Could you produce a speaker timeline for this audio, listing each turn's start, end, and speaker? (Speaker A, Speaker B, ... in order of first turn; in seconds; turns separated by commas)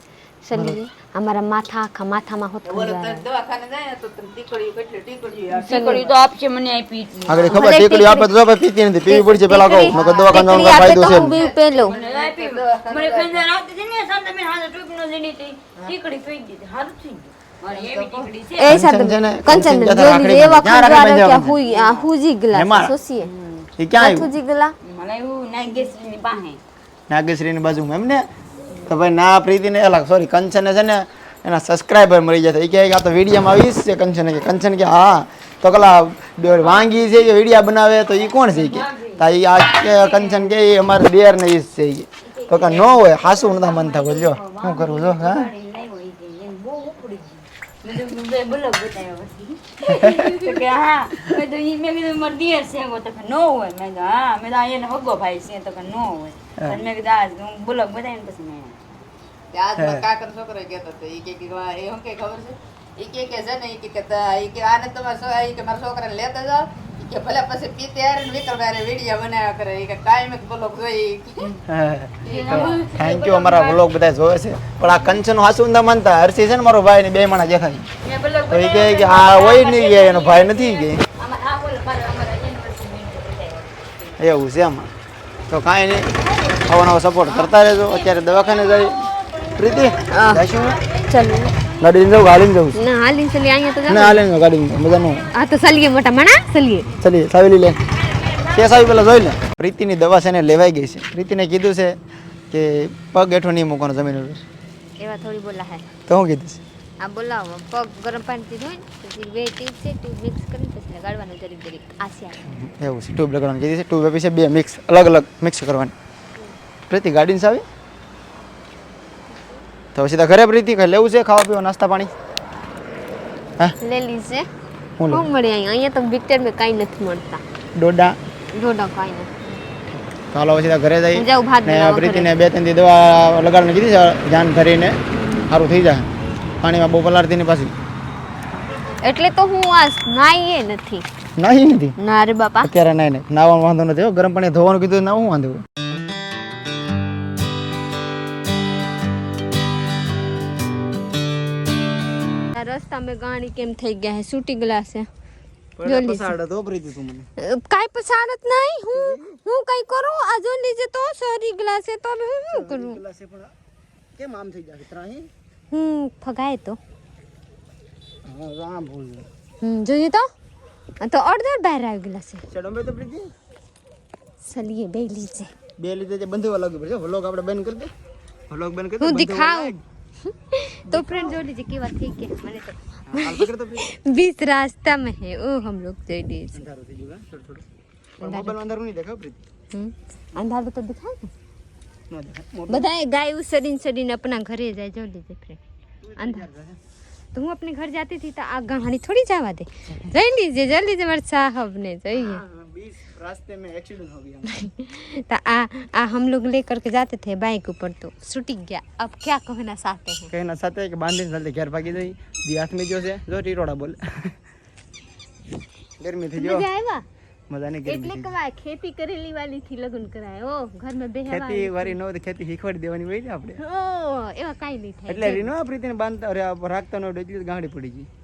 Speaker A: 0.4-3.3, Speaker B: 0.5-0.8, Speaker C: 2.6-6.1, Speaker D: 5.5-7.8, Speaker A: 5.7-6.0, Speaker B: 7.3-11.4, Speaker A: 7.4-8.3, Speaker A: 9.1-12.0, Speaker C: 9.8-10.5, Speaker D: 9.9-18.8, Speaker C: 11.2-13.4, Speaker C: 17.7-18.3, Speaker A: 18.6-23.3, Speaker B: 18.7-21.6, Speaker D: 21.6-22.1, Speaker B: 22.5-22.9, Speaker D: 23.2-23.7, Speaker B: 23.8-24.3, Speaker A: 24.0-24.8, Speaker D: 24.8-26.6, Speaker B: 27.1-28.3, Speaker B: 28.8-45.5, Speaker D: 36.6-37.0, Speaker D: 38.4-39.3, Speaker D: 39.8-40.5, Speaker D: 42.2-58.8, Speaker B: 49.9-50.3, Speaker B: 56.6-56.8, Speaker C: 59.5-71.6, Speaker B: 59.8-60.0, Speaker B: 71.7-77.9, Speaker C: 72.2-72.8, Speaker D: 72.2-73.9, Speaker D: 74.9-75.2, Speaker D: 78.0-84.1, Speaker B: 78.5-81.0, Speaker B: 84.2-84.9, Speaker B: 85.5-90.8, Speaker D: 86.3-86.5, Speaker D: 87.2-91.7, Speaker A: 90.1-90.5, Speaker A: 91.1-91.5, Speaker B: 91.8-92.8, Speaker A: 92.7-94.2, Speaker B: 93.9-95.3, Speaker A: 95.3-97.0, Speaker B: 97.0-97.8, Speaker D: 98.0-99.0, Speaker B: 98.4-102.0, Speaker B: 102.5-104.4, Speaker A: 105.0-105.9, Speaker B: 106.1-106.6, Speaker A: 107.0-112.5, Speaker B: 112.4-115.9, Speaker B: 116.9-117.7, Speaker B: 120.0-122.1, Speaker A: 123.8-124.5, Speaker B: 125.0-125.3, Speaker A: 125.1-127.4, Speaker B: 127.8-128.2, Speaker A: 128.5-129.6, Speaker B: 129.9-136.1, Speaker A: 131.1-132.4, Speaker B: 136.6-137.7, Speaker A: 139.0-141.1, Speaker B: 141.4-141.9, Speaker A: 142.0-142.7, Speaker B: 142.6-145.6, Speaker A: 152.5-155.1, Speaker B: 155.8-157.3, Speaker A: 155.8-156.3, Speaker A: 157.4-163.0, Speaker B: 158.9-159.4, Speaker B: 162.5-163.5, Speaker B: 164.2-165.3, Speaker A: 165.7-166.8, Speaker B: 168.2-169.3, Speaker A: 169.6-170.3, Speaker A: 171.0-172.4, Speaker B: 172.5-173.3, Speaker A: 174.4-175.5, Speaker B: 175.8-177.9, Speaker B: 178.5-179.8, Speaker A: 179.0-186.7, Speaker B: 180.9-181.4, Speaker B: 183.1-183.9, Speaker B: 186.5-187.7, Speaker A: 188.2-188.6, Speaker B: 188.2-189.4, Speaker A: 189.7-191.3, Speaker B: 192.1-192.9, Speaker A: 192.7-195.6, Speaker B: 196.0-196.8, Speaker A: 196.2-196.5, Speaker A: 197.3-202.4, Speaker B: 202.1-204.7, Speaker A: 204.5-210.3, Speaker B: 210.3-214.3, Speaker B: 216.0-216.7, Speaker A: 216.4-217.1, Speaker B: 217.5-218.3, Speaker A: 217.9-222.0, Speaker B: 221.3-223.6, Speaker A: 223.6-225.5, Speaker B: 225.1-228.1